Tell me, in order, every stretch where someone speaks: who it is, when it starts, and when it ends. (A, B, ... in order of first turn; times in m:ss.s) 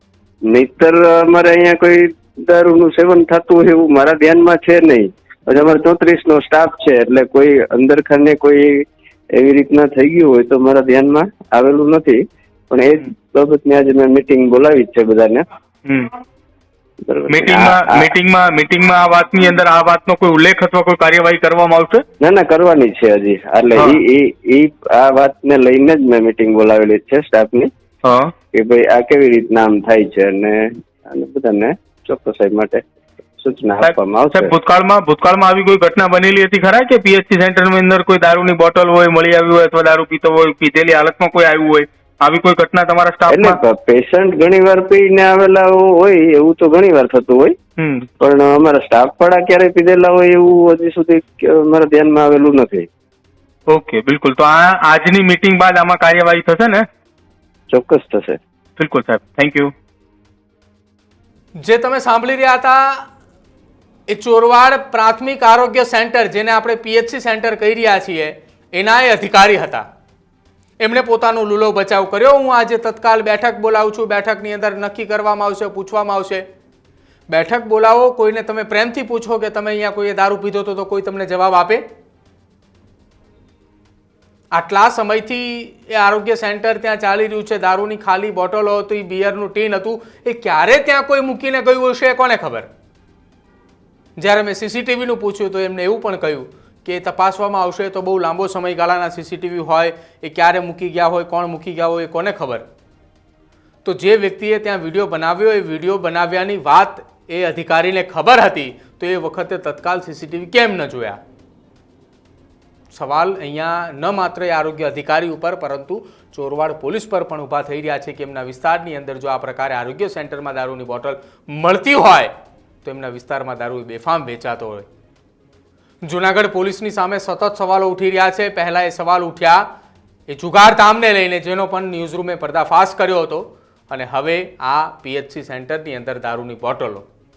0:00.5-0:08.8 A
0:09.4-0:15.4 A
0:17.1-0:18.2 A
0:17.3-0:22.0 B
0:22.2-0:27.7 A
0:28.0-0:28.3 B
0:28.5-0:32.8 A
0:33.4-0:34.5 A
0:33.8-0:43.6 B
0:43.3-0:47.6 A
0:47.8-0:48.1 B
0:48.2-0:52.9 A
0:53.7-0:56.8 B
0:57.7-0:58.4 A
0:58.8-0:59.7 B
1:01.6-1:03.1 C
1:04.1-1:09.8 C
1:10.8-1:16.4 C
1:17.3-1:21.8 C
1:24.5-1:32.7 C
1:34.2-1:42.6 C
1:43.8-1:51.2 C
1:52.9-2:02.3 C
2:02.8-2:04.9 C
2:06.0-2:09.6 C
2:10.3-2:17.1 C